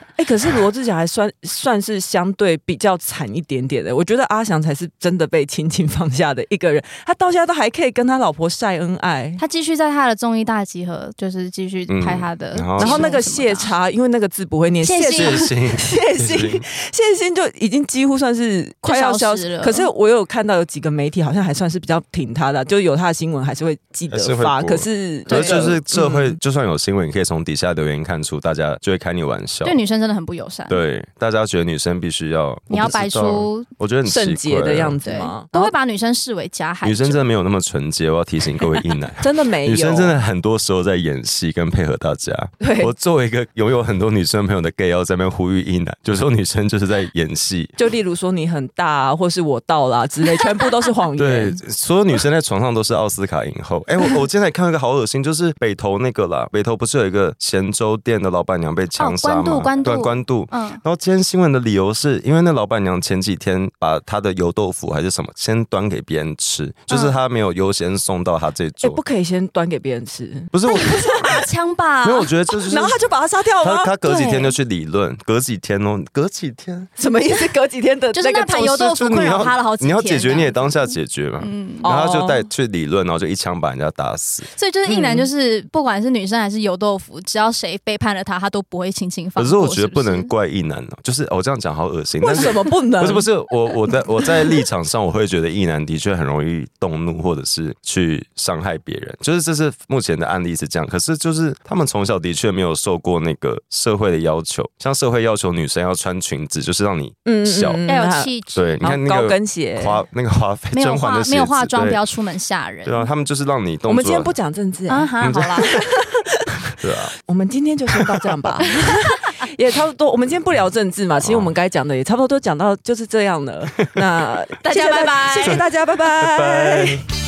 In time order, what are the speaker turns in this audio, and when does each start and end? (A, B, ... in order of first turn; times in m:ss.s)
0:00.2-0:09.4 A
0:09.4-0:13.7 B
0:11.9-0:13.1 C
0:12.8-0:26.4 A
0:14.8-0:15.5 B
0:15.1-0:16.6 C
0:18.8-0:19.9 B
0:24.1-0:29.8 C
0:25.3-0:25.8 B
0:29.6-0:30.8 B
0:30.7-0:35.0 C
0:32.7-0:33.7 B
0:34.0-0:35.7 A
0:35.0-0:37.3 B
0:36.8-0:47.7 C
0:39.2-0:40.2 A
0:42.6-0:42.9 A
0:47.8-0:51.6 A
0:51.2-1:09.0 C
0:59.0-1:00.8 B
1:06.9-1:07.2 B
1:08.8-1:11.2 A
1:10.5-1:11.4 C
1:10.7-1:12.3 B
1:12.0-1:13.0 C
1:12.5-1:13.9 A
1:13.6-1:16.9 C
1:14.0-1:14.6 B
1:17.0-1:18.8 A
1:18.1-1:21.9 B
1:18.8-1:24.5 C
1:21.8-1:22.5 A
1:24.5-1:30.3 B
1:24.8-1:25.3 A
1:29.4-1:47.8 C
1:32.2-1:33.4 A
1:33.9-1:34.3 A
1:47.2-1:48.3 A
1:47.9-1:48.8 B
1:48.5-1:52.0 C
1:48.8-1:50.1 A
1:50.7-1:53.1 B
1:52.8-1:54.3 C
1:53.9-1:56.5 A
1:54.9-1:55.8 B
1:55.2-1:55.7 C
1:56.8-1:57.2 C
1:57.2-2:07.0 A
2:01.2-2:01.5 C
2:04.6-2:05.6 B
2:05.4-2:07.0 C